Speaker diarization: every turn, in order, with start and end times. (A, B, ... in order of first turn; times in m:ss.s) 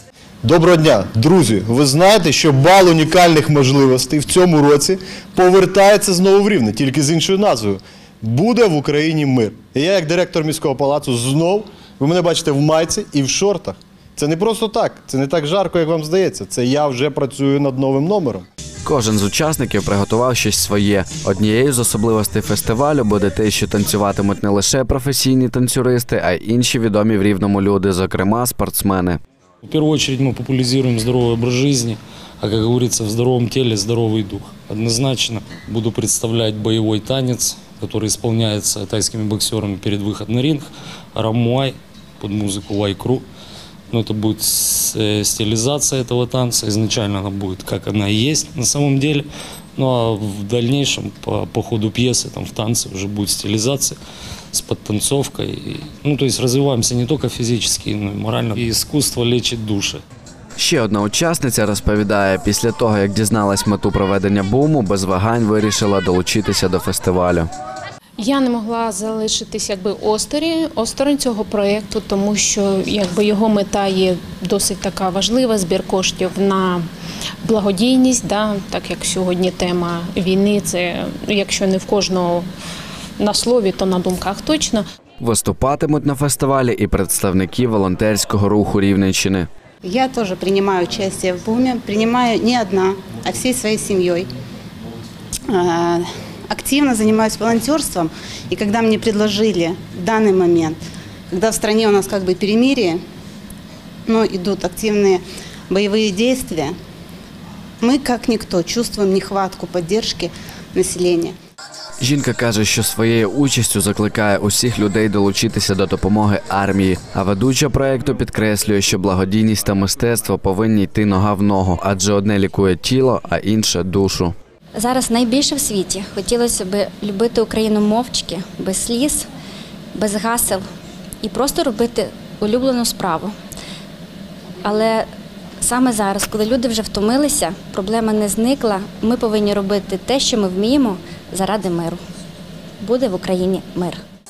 0:00.4-0:18.5 A
0:18.8-0:29.2 B
0:29.6-0:43.2 C
0:43.9-0:54.0 C
0:54.5-1:00.0 C
1:00.6-1:07.5 B
1:08.2-1:16.8 D
1:17.4-1:22.5 D
1:23.2-1:24.8 D
1:25.2-1:29.5 B
1:29.8-1:34.3 E
1:35.5-1:43.0 E
1:44.1-1:46.7 E
1:47.8-1:51.4 E
1:52.0-2:04.4 B
2:04.8-2:09.3 F
2:09.9-2:10.6 F
2:11.2-2:13.4 F
2:14.6-2:15.0 F
2:15.6-2:22.0 F
2:22.8-2:24.0 F